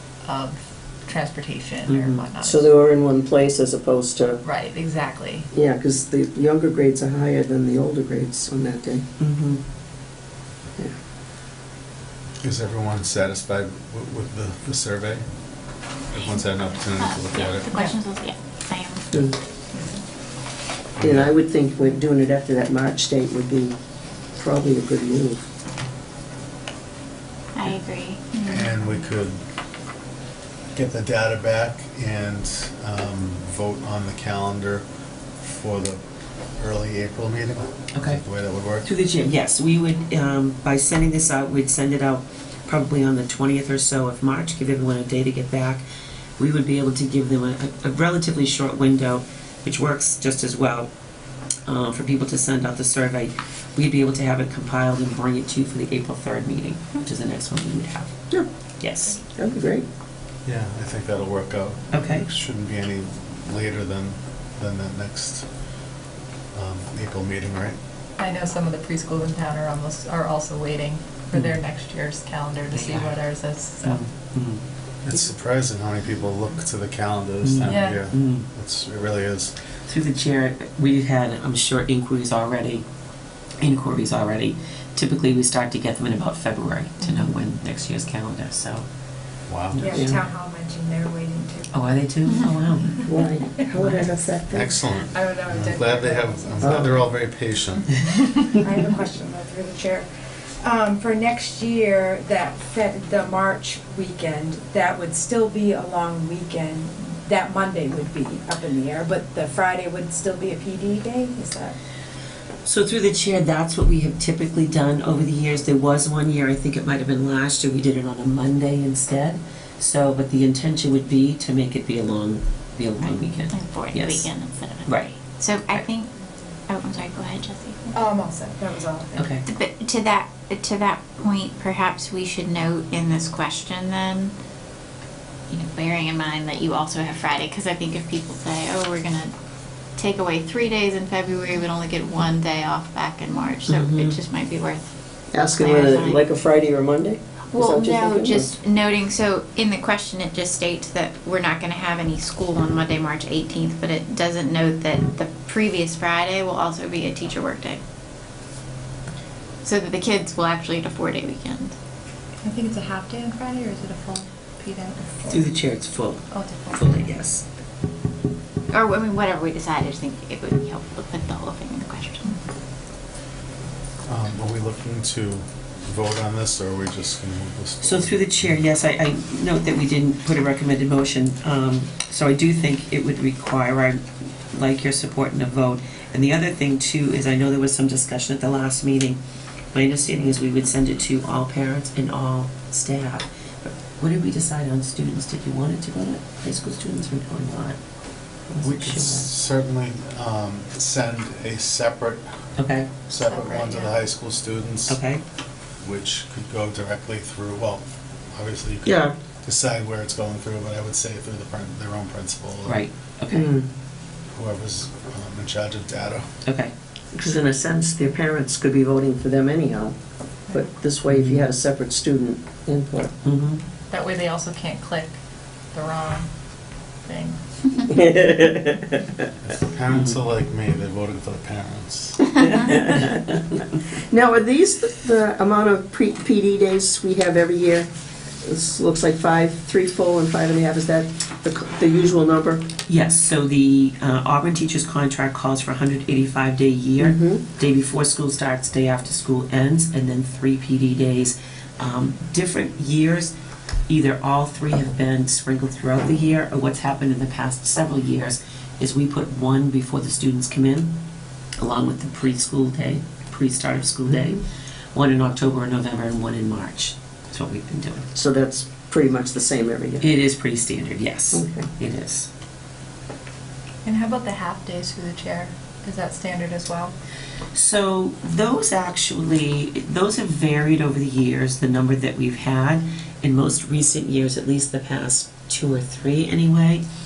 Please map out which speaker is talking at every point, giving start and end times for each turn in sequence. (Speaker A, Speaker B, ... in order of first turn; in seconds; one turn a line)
Speaker A: 0.2-2.7
Speaker B: 1.9-2.3
Speaker C: 2.4-4.4
Speaker A: 4.4-5.5
Speaker C: 5.5-9.1
Speaker B: 9.2-9.6
Speaker D: 12.4-15.2
Speaker D: 16.1-17.7
Speaker E: 16.1-19.1
Speaker A: 19.7-20.0
Speaker D: 21.0-21.3
Speaker C: 21.0-23.8
Speaker C: 24.4-25.4
Speaker E: 27.6-28.4
Speaker A: 28.3-28.7
Speaker D: 28.5-29.4
Speaker D: 30.7-34.8
Speaker D: 35.4-36.0
Speaker D: 36.6-38.9
Speaker B: 38.0-38.2
Speaker B: 38.8-45.8
Speaker B: 46.4-50.9
Speaker B: 51.7-58.1
Speaker B: 58.8-59.2
Speaker C: 59.4-59.9
Speaker D: 60.5-65.5
Speaker B: 61.9-62.3
Speaker D: 66.5-67.8
Speaker A: 68.2-74.0
Speaker B: 71.3-71.6
Speaker B: 72.7-73.2
Speaker B: 73.8-74.6
Speaker D: 75.0-79.5
Speaker B: 77.4-78.5
Speaker A: 77.7-78.0
Speaker B: 79.9-82.8
Speaker B: 83.6-88.8
Speaker D: 89.5-90.0
Speaker F: 89.8-91.7
Speaker B: 89.9-90.2
Speaker B: 91.7-93.0
Speaker C: 93.1-94.8
Speaker B: 93.8-94.0
Speaker D: 94.5-98.2
Speaker F: 95.1-96.6
Speaker C: 96.6-97.0
Speaker F: 98.6-100.1
Speaker F: 100.6-111.8
Speaker B: 112.6-124.3
Speaker E: 123.5-126.1
Speaker B: 124.8-125.2
Speaker E: 126.7-128.0
Speaker F: 127.9-129.3
Speaker B: 129.2-129.4
Speaker E: 129.4-134.3
Speaker E: 135.5-139.3
Speaker E: 140.0-146.2
Speaker B: 143.7-144.2
Speaker C: 145.3-148.5
Speaker E: 147.5-157.8
Speaker E: 159.6-161.7
Speaker A: 162.4-165.5
Speaker B: 165.3-167.4
Speaker A: 166.3-167.1
Speaker E: 168.7-172.4
Speaker D: 174.1-178.6
Speaker B: 177.8-184.0
Speaker B: 184.5-189.2
Speaker B: 189.7-197.8
Speaker B: 198.5-199.3
Speaker D: 198.6-202.2
Speaker B: 202.6-202.9
Speaker D: 203.1-205.0
Speaker A: 203.2-204.0
Speaker B: 204.9-205.2
Speaker D: 205.8-212.9
Speaker C: 208.8-209.1
Speaker B: 212.7-213.5
Speaker C: 213.3-213.7
Speaker D: 214.3-216.3
Speaker B: 216.5-216.7
Speaker C: 217.1-219.9
Speaker C: 220.5-223.1
Speaker B: 221.1-221.4
Speaker B: 223.2-223.6
Speaker A: 223.9-225.2
Speaker A: 225.7-226.3
Speaker A: 227.1-227.4
Speaker C: 227.9-229.0
Speaker D: 229.4-232.3
Speaker B: 229.9-230.2
Speaker C: 232.4-233.2
Speaker C: 234.1-237.9
Speaker C: 238.4-242.7
Speaker B: 242.9-253.3
Speaker C: 247.0-247.4
Speaker B: 253.9-260.9
Speaker B: 261.6-264.4
Speaker B: 264.9-268.1
Speaker C: 268.1-270.1
Speaker B: 270.0-272.3
Speaker C: 271.3-271.7
Speaker A: 273.8-276.9
Speaker B: 277.5-286.8